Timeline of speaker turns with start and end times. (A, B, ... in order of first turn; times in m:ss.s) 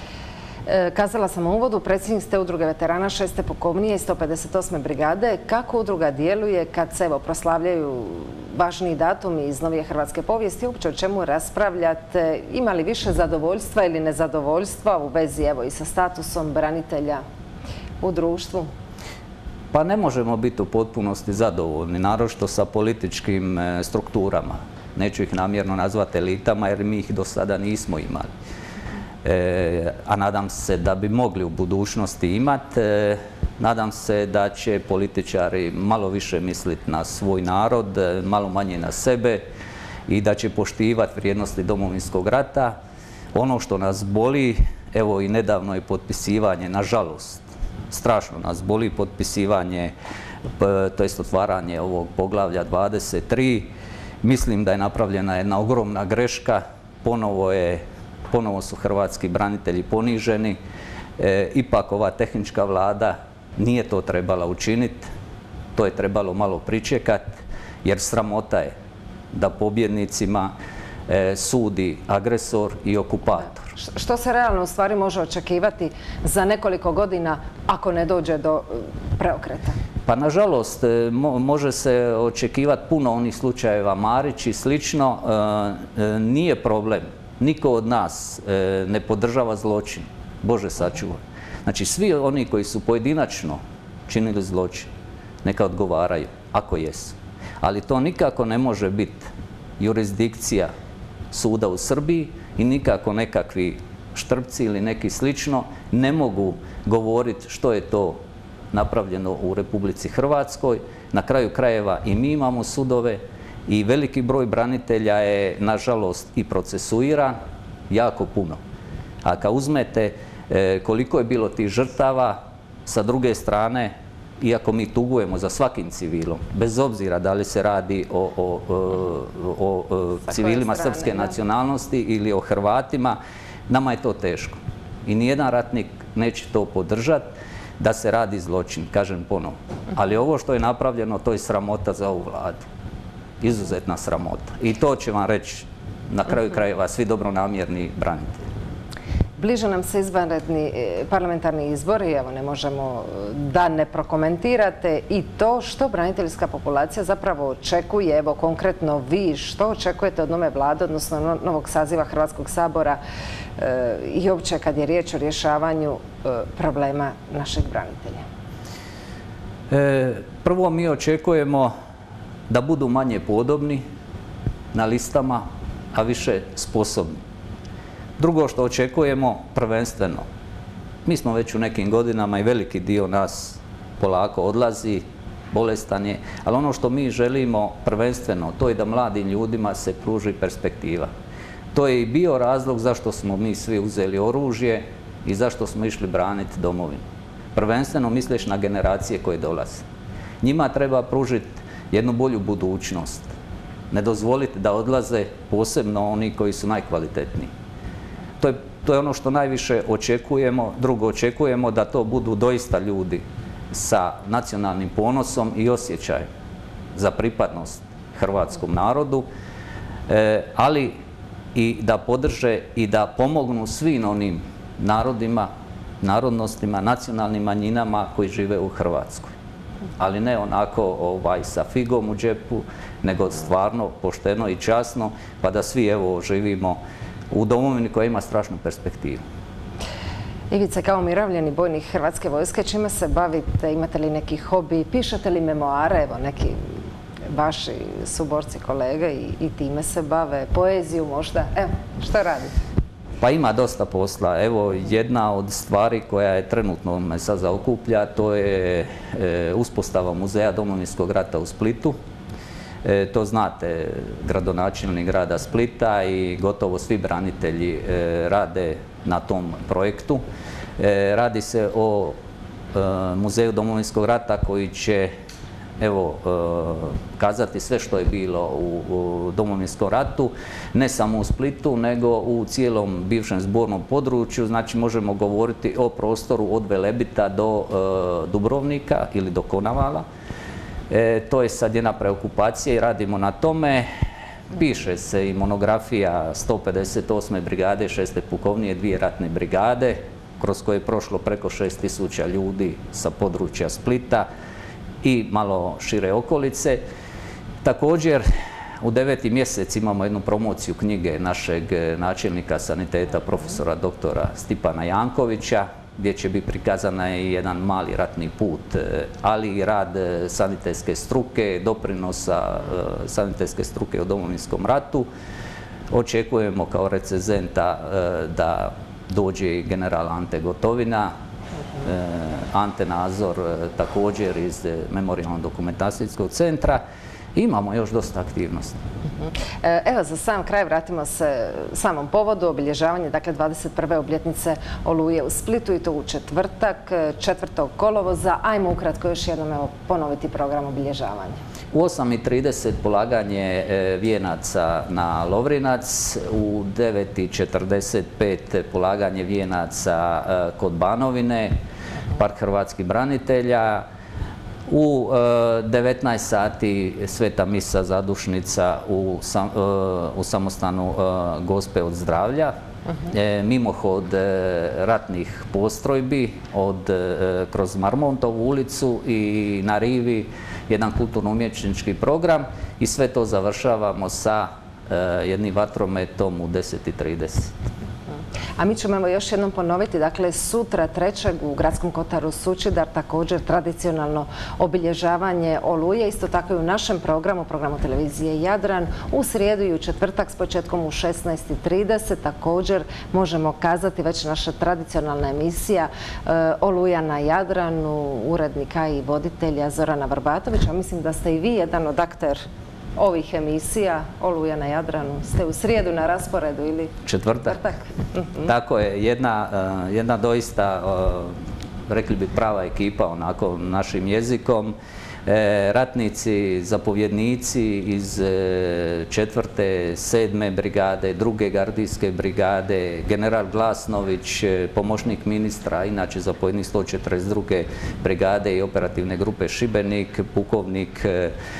0:00.7-0:17.2 A
0:18.0-0:18.7 A
0:19.7-0:28.3 B
0:29.2-0:39.4 B
0:40.1-0:42.8 B
0:43.3-0:49.9 B
0:50.6-0:53.7 B
0:54.2-1:00.6 B
1:01.2-1:05.1 B
1:05.7-1:08.7 B
1:09.3-1:10.5 B
1:11.1-1:13.7 B
1:13.8-1:19.8 A
1:20.0-1:34.9 B
1:35.4-1:40.7 B
1:41.3-1:48.2 B
1:48.7-1:57.4 B
1:57.9-1:58.6 B
1:59.2-2:22.6 B
2:10.4-2:11.3 A
2:23.4-2:28.4 B
2:29.4-2:43.0 A
2:43.6-2:48.2 A
2:49.7-2:51.7 B
2:52.5-2:53.8 B
2:54.7-2:57.2 B
2:58.2-3:00.2 B
3:01.0-3:11.1 B
3:11.7-3:19.8 B
3:20.4-3:23.3 B
3:23.9-3:27.5 B
3:28.4-3:36.3 B
3:36.9-3:39.3 B
3:40.1-3:41.0 B
3:41.5-3:49.3 B
3:50.0-3:59.2 B
4:00.5-4:06.6 A
4:07.3-4:12.5 A
4:13.2-4:22.0 B
4:22.8-4:30.2 B
4:30.8-4:32.2 B
4:32.7-4:35.1 B
4:35.8-4:50.0 B
4:50.9-4:53.9 B
4:54.5-5:04.3 B
5:05.0-5:06.8 B
5:07.6-5:08.2 B
5:08.8-5:25.1 B
5:25.9-5:31.1 B
5:31.8-5:36.8 B
5:37.3-5:38.8 B
5:39.6-5:51.4 A
5:51.7-6:01.6 B
6:02.2-6:03.9 B
6:04.7-6:12.5 B
6:13.1-6:27.5 B
6:28.6-6:52.4 A
6:53.0-6:56.9 A
6:57.0-6:57.7 B
6:57.5-6:58.4 A
6:58.4-7:21.4 B